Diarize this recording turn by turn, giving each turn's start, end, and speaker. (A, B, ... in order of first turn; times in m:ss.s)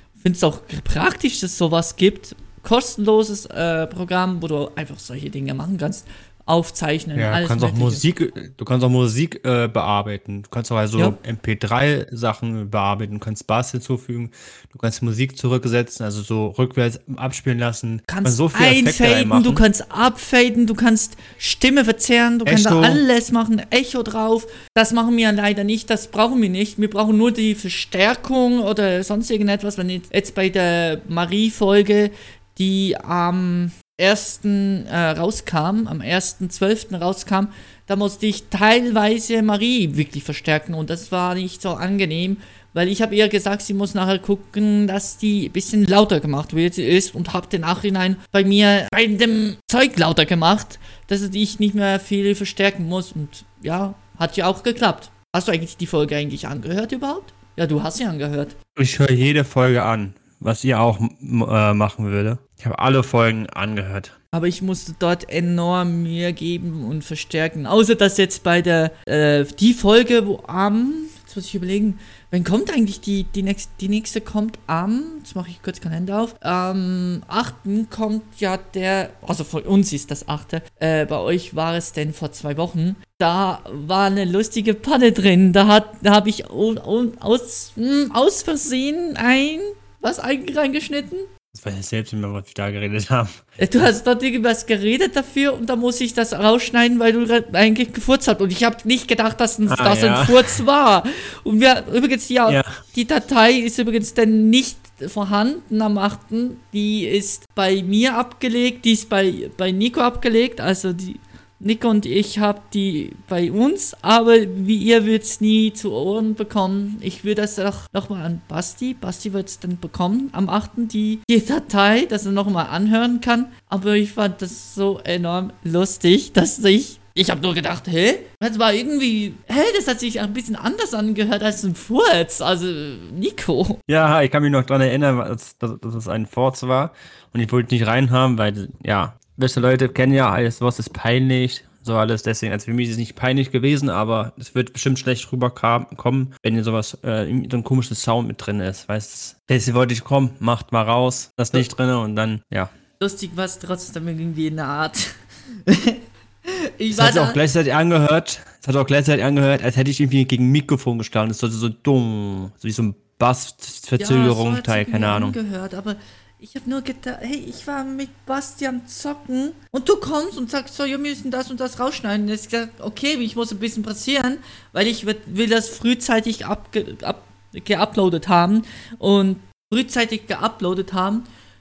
0:00.2-0:08.0 A
0:07.2-0:19.6 B
0:18.1-0:58.6 A
0:22.5-0:23.0 B
0:58.8-1:04.1 B
1:04.3-1:31.3 A
1:31.5-1:33.6 B
1:33.6-2:13.8 A
1:39.7-1:40.6 B
2:13.9-2:32.7 B
2:33.0-2:35.1 A
2:35.7-2:37.4 A
2:36.9-2:45.4 B
2:44.0-3:01.3 A